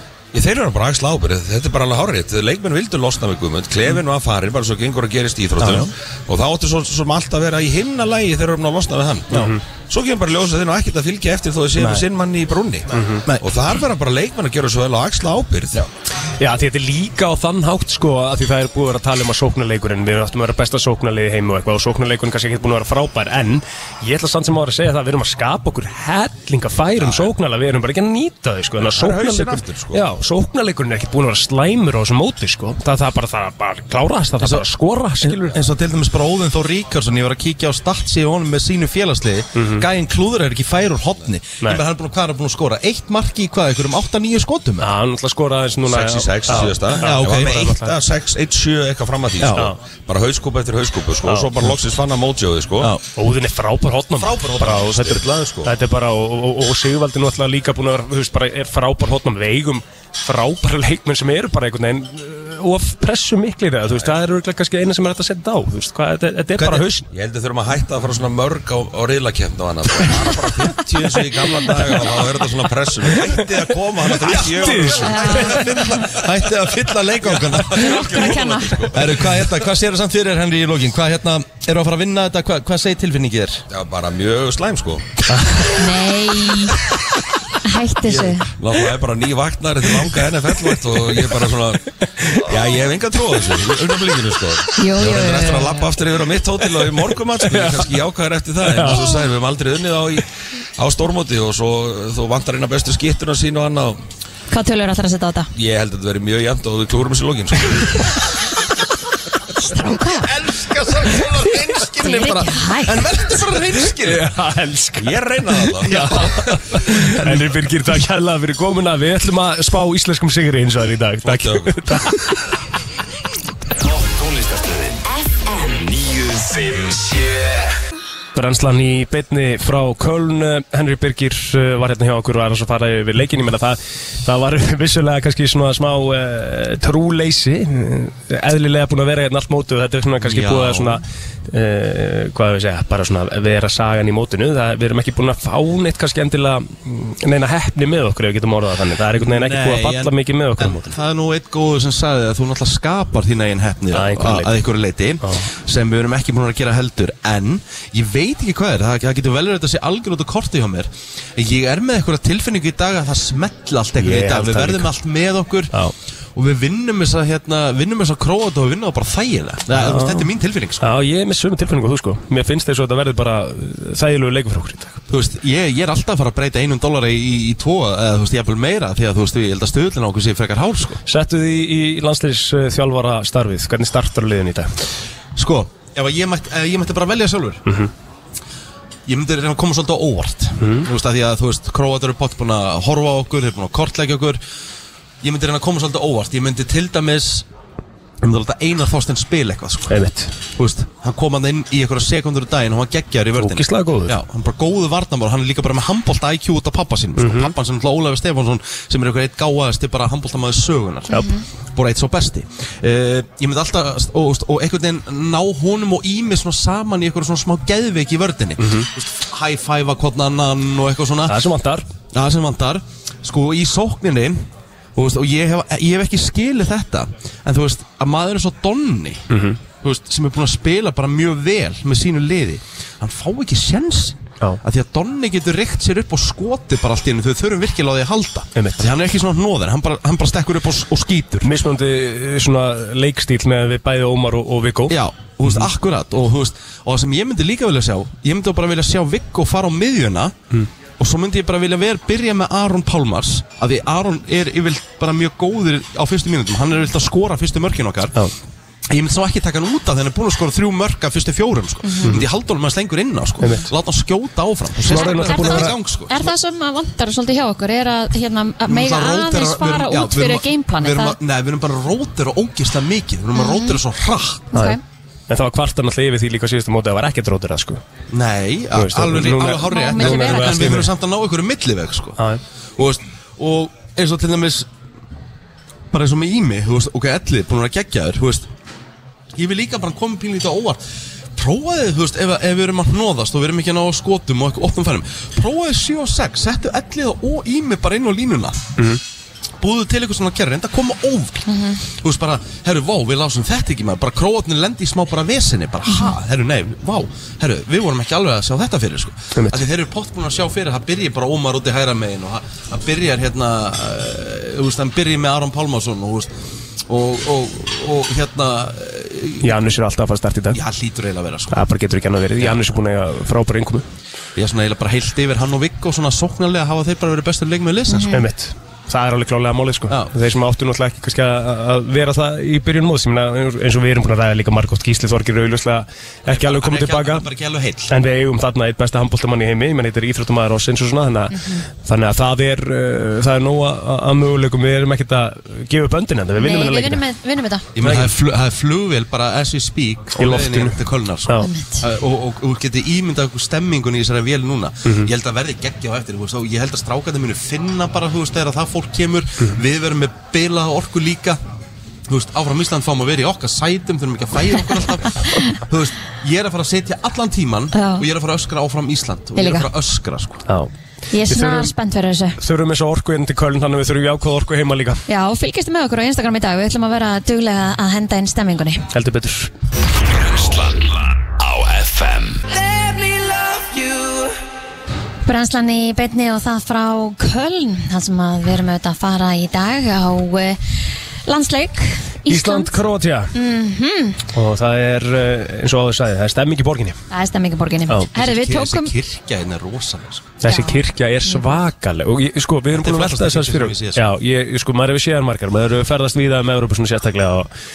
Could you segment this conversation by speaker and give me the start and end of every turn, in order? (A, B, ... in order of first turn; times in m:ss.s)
0:00.3-0:15.9 A
0:05.6-0:05.9 B
0:09.3-0:09.6 C
0:12.9-0:13.2 C
0:16.4-0:35.6 C
0:27.0-0:27.3 A
0:28.8-0:30.0 A
0:35.5-0:44.9 B
0:39.6-0:39.9 C
0:44.8-0:48.0 C
0:45.9-0:53.0 A
0:46.5-0:47.6 B
0:49.4-0:49.7 B
0:51.2-0:51.8 C
0:53.1-1:07.1 C
0:54.2-0:55.7 A
1:03.9-1:04.2 A
1:07.1-1:16.0 A
1:13.1-1:15.9 C
1:14.2-1:18.0 B
1:15.0-1:16.0 D
1:17.2-1:19.4 A
1:17.8-1:18.9 D
1:18.9-1:23.6 B
1:23.7-1:25.1 A
1:25.4-1:25.7 C
1:25.7-1:26.8 D
1:27.6-1:28.5 D
1:28.0-1:31.8 A
1:30.1-1:31.3 C
1:32.2-1:32.5 C
1:32.4-1:40.2 A
1:34.8-1:35.9 D
1:36.8-1:38.0 C
1:38.7-1:39.2 C
1:40.8-1:44.0 A
1:44.5-1:45.5 D
1:45.6-1:48.0 A
1:49.6-1:50.3 D
1:50.1-1:54.3 B
1:52.0-1:53.1 D
1:54.0-2:02.4 C
1:55.0-1:56.2 A
1:55.9-1:57.5 B
2:01.2-2:01.8 A
2:03.8-2:07.7 E
2:08.4-2:30.9 C
2:20.2-2:21.0 B
2:29.2-2:45.7 B
2:33.9-2:34.6 C
2:44.0-2:44.9 C
2:46.4-2:50.9 B
2:49.7-2:50.3 C
2:50.8-2:55.0 C
2:55.1-3:01.0 B
3:01.1-3:04.7 C
3:05.4-3:07.6 B
3:09.1-3:14.4 B
3:10.6-3:10.9 C
3:15.2-3:17.5 B
3:18.2-3:20.0 B
3:19.9-3:20.3 C
3:20.6-3:31.2 B
3:23.4-3:24.2 C
3:27.2-3:27.5 C
3:31.1-3:31.4 D
3:31.8-3:41.4 B
3:38.6-3:38.9 C
3:41.3-3:41.8 C
3:42.1-3:44.4 B
3:45.0-3:49.3 B
3:49.3-3:49.6 C
3:49.8-4:01.5 B
3:58.6-3:58.9 C
4:01.4-4:05.7 C
4:04.9-4:10.4 B
4:11.0-4:18.2 B
4:18.9-4:26.3 B
4:21.8-4:22.2 D
4:22.0-4:22.3 C
4:23.4-4:23.7 C
4:24.8-4:25.8 C
4:24.9-4:31.2 D
4:28.7-4:34.6 B
4:33.4-4:33.8 D
4:34.5-4:34.8 D
4:35.3-4:37.8 C
4:38.1-4:42.2 B
4:38.7-4:40.9 C
4:39.6-4:40.7 D
4:42.8-4:44.7 B
4:45.9-4:48.5 B
4:49.4-4:50.8 B
4:51.4-4:58.6 B
4:59.6-5:16.3 B
5:01.5-5:01.8 D
5:05.9-5:06.1 D
5:09.4-5:09.6 C
5:16.9-5:19.6 B
5:19.4-5:20.6 C
5:20.5-5:21.7 B
5:21.5-5:23.8 C
5:24.4-5:28.2 B
5:27.9-5:28.3 D
5:28.1-5:37.3 C
5:36.3-5:37.9 B
5:37.9-5:47.0 C
5:41.3-5:41.6 D
5:46.4-5:47.7 D
5:47.8-6:01.4 B
5:47.8-5:48.1 C
5:50.2-5:51.5 C
5:51.4-5:51.8 D
5:54.8-5:55.1 C
6:02.1-6:10.4 B
6:07.7-6:08.1 D
6:09.4-6:09.7 D
6:11.1-6:12.4 D
6:11.3-6:11.7 C
6:12.4-6:15.0 C
6:15.1-6:18.9 D
6:18.9-6:19.5 C
6:20.0-6:24.2 E
6:25.3-6:32.8 D
6:32.3-6:33.3 C
6:33.3-6:34.2 D
6:34.3-6:37.0 C
6:37.1-6:38.9 D
6:38.1-6:40.3 B
6:40.4-6:47.5 C
6:40.4-6:41.5 D
6:42.7-6:44.0 B